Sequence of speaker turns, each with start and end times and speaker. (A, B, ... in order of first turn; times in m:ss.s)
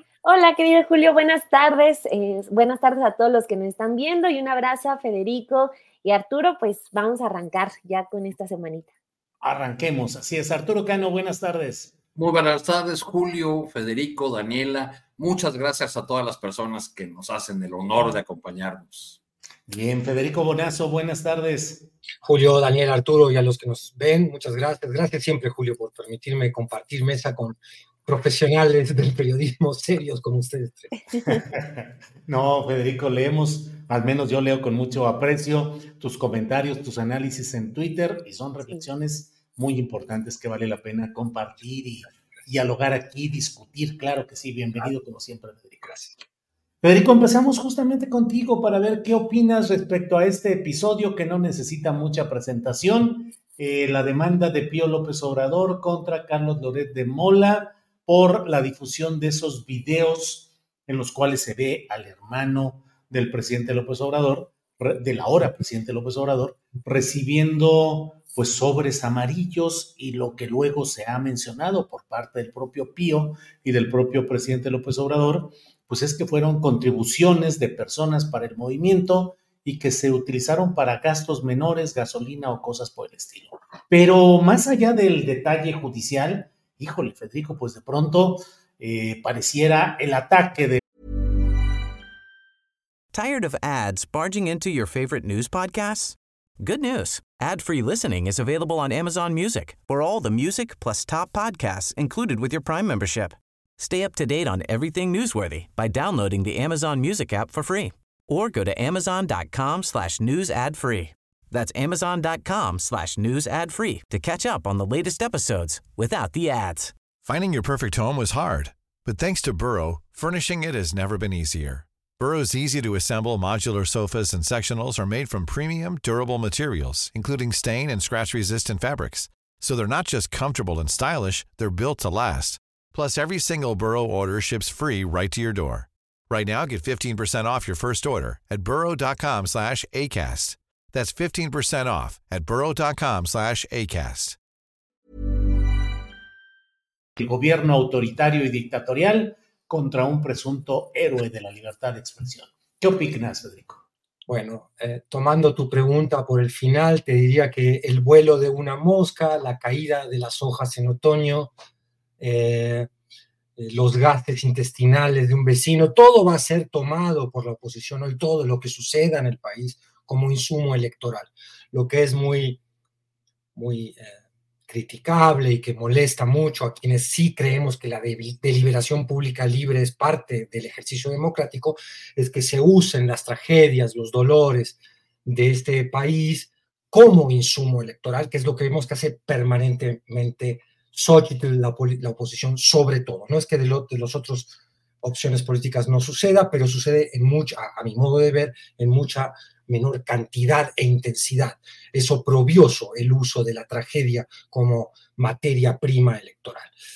0:00.2-0:08.9 A
0:09.4-0:11.9 B
0:12.2-0:19.2 C
0:19.7-0:21.9 B
0:22.2-0:30.9 D
0:31.2-0:45.9 B
0:45.8-0:46.1 D
0:46.8-1:30.8 B
1:33.1-1:56.9 E
1:57.2-2:24.4 F
2:27.2-2:33.8 B
2:34.3-2:41.5 D
2:42.2-2:42.9 D
2:43.6-2:52.6 D
2:53.5-2:54.2 D
2:54.7-3:14.5 D
3:15.0-3:26.7 D